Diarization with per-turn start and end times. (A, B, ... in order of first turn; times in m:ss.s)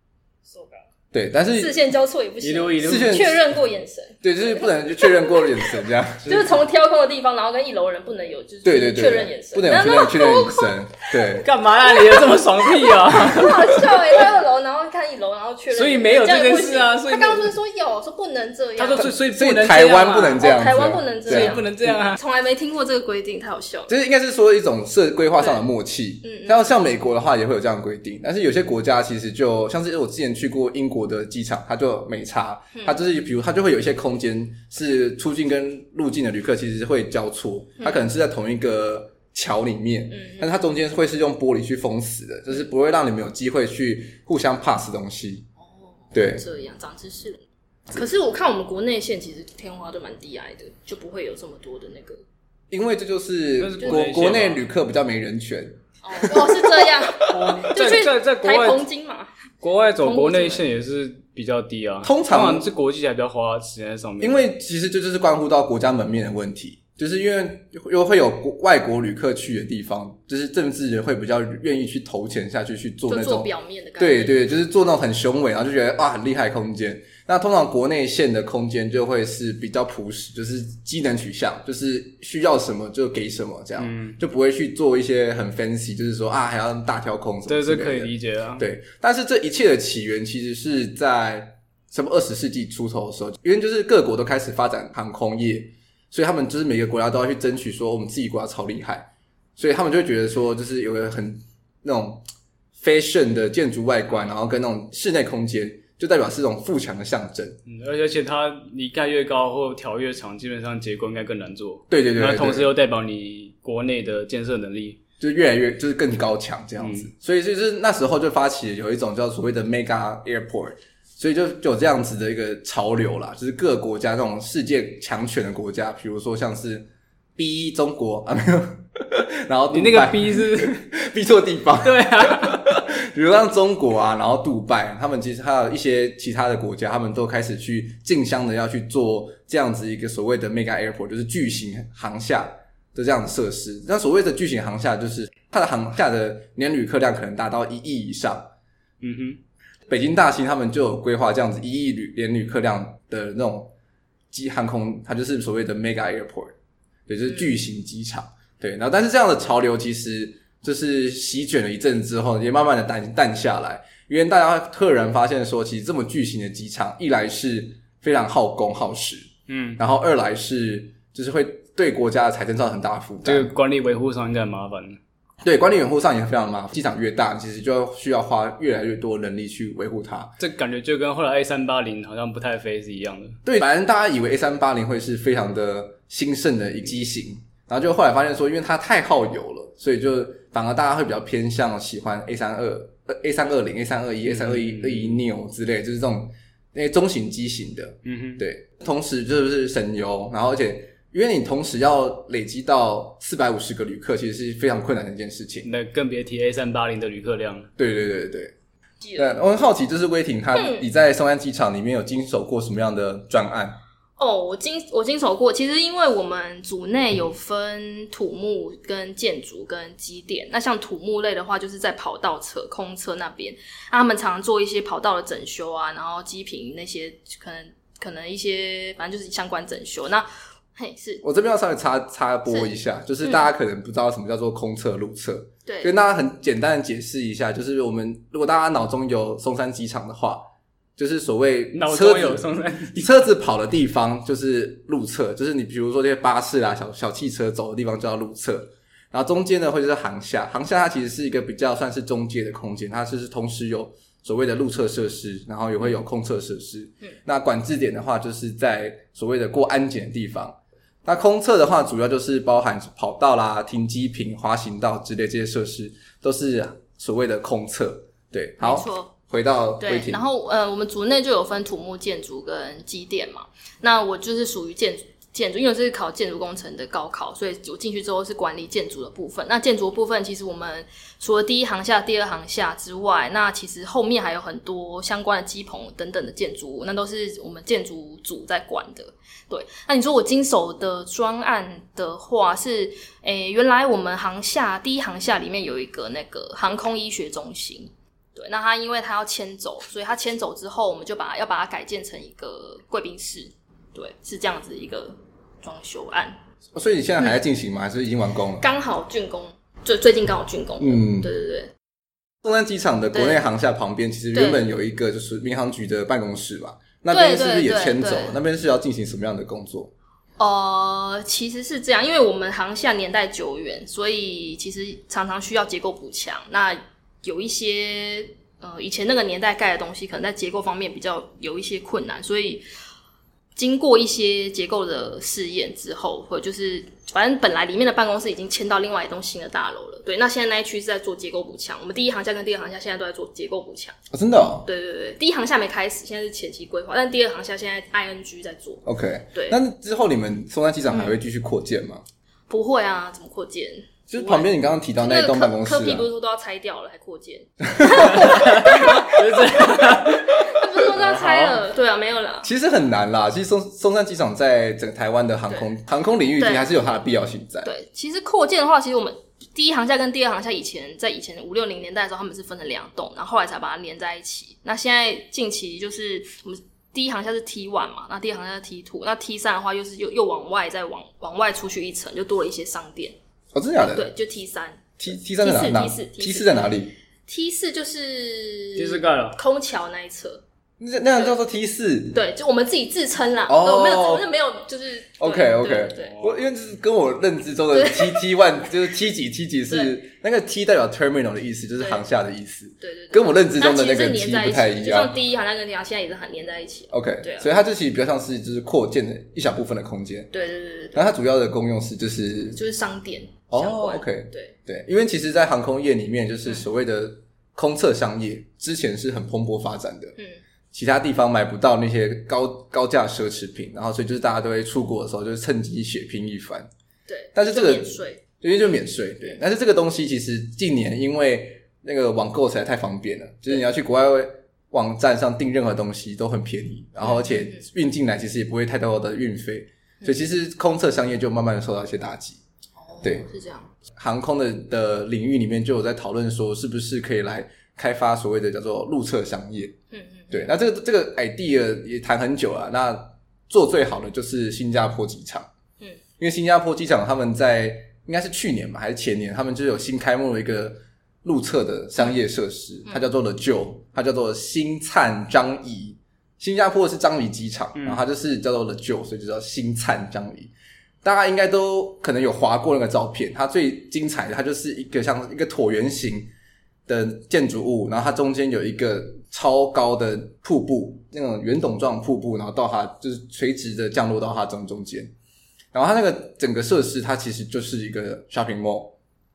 0:00.4-0:00.8 A
0:01.1-0:01.8 B
0:01.5-0:10.7 A
0:02.4-0:03.2 C
0:02.8-0:03.4 B
0:04.2-0:06.5 B
0:08.6-0:11.5 B
0:11.4-0:13.9 C
0:12.0-0:19.1 A
0:15.7-0:17.5 C
0:18.8-0:20.4 C
0:19.0-0:21.6 B
0:19.7-0:23.9 A
0:21.3-0:22.2 C
0:23.9-0:45.4 B
0:26.2-0:26.7 A
0:32.7-0:33.0 A
0:40.1-0:40.6 A
0:45.6-0:52.2 A
0:46.1-0:46.4 B
0:52.7-0:57.6 B
0:53.6-0:54.6 C
0:56.0-0:59.3 A
0:57.3-0:58.8 C
0:59.6-1:04.4 C
1:00.0-1:00.6 A
1:02.0-1:02.7 B
1:04.2-1:42.2 B
1:13.1-1:14.4 A
1:23.8-1:24.2 C
1:27.5-1:28.6 C
1:42.8-1:47.6 B
1:47.6-1:55.0 C
1:51.9-1:52.7 B
1:55.2-2:28.5 B
1:56.8-1:57.1 C
2:09.7-2:10.8 C
2:11.8-2:12.6 C
2:29.0-2:29.4 C
2:29.9-2:33.7 B
2:34.3-2:36.5 B
2:37.1-2:53.5 B
2:49.5-2:49.8 C
2:53.2-2:55.0 C
2:55.4-3:00.3 B
3:00.4-3:03.4 C
3:03.4-3:25.7 B
3:14.2-3:15.2 C
3:18.0-3:18.4 C
3:25.6-3:27.7 C
3:27.8-3:28.5 B
3:29.0-3:29.4 A
3:29.2-3:33.8 B
3:30.5-3:30.9 A
3:34.2-3:51.2 A
3:51.2-4:30.2 B
3:52.5-3:53.5 A
3:55.6-3:55.9 A
4:01.7-4:03.1 C
4:28.6-4:29.1 A
4:29.8-5:06.4 A
5:06.7-5:08.6 B
5:08.6-5:11.7 A
5:10.8-5:11.3 B
5:12.4-5:19.9 B
5:13.1-5:13.4 A
5:14.3-5:14.7 A
5:17.1-5:18.4 A
5:20.4-5:32.6 A
5:33.6-5:44.0 A
5:44.1-5:44.7 B
5:44.6-5:49.6 A
5:48.8-5:52.0 B
5:50.9-5:51.1 A
5:52.5-6:02.5 A
5:54.1-5:56.1 B
5:57.7-5:58.5 B
5:58.2-6:00.4 C
6:00.9-6:01.6 C
6:02.4-6:07.7 B
6:06.4-6:06.7 A
6:07.6-6:23.2 A
6:23.5-6:24.1 B
6:23.8-6:26.7 A
6:25.0-6:26.9 B
6:27.3-6:30.4 A
6:28.8-6:29.4 C
6:30.8-6:32.2 B
6:32.1-6:36.2 A
6:33.5-6:34.2 B
6:35.2-6:45.1 B
6:36.0-6:36.4 C
6:37.7-6:38.2 A
6:42.8-6:47.5 A
6:46.9-6:50.3 B
6:50.3-6:51.0 A
6:50.9-6:52.6 B
6:52.5-6:54.5 A
6:53.5-7:00.2 B
7:00.7-7:06.7 B
7:07.1-7:08.2 A
7:07.3-7:22.4 B
7:17.0-7:17.6 A
7:22.8-7:23.7 A
7:23.9-7:29.7 B
7:29.9-7:30.5 A
7:30.3-7:35.5 B
7:36.2-7:50.5 B
7:47.8-7:48.0 C
7:51.0-7:56.3 B
7:56.9-8:05.1 B
8:05.7-8:08.9 B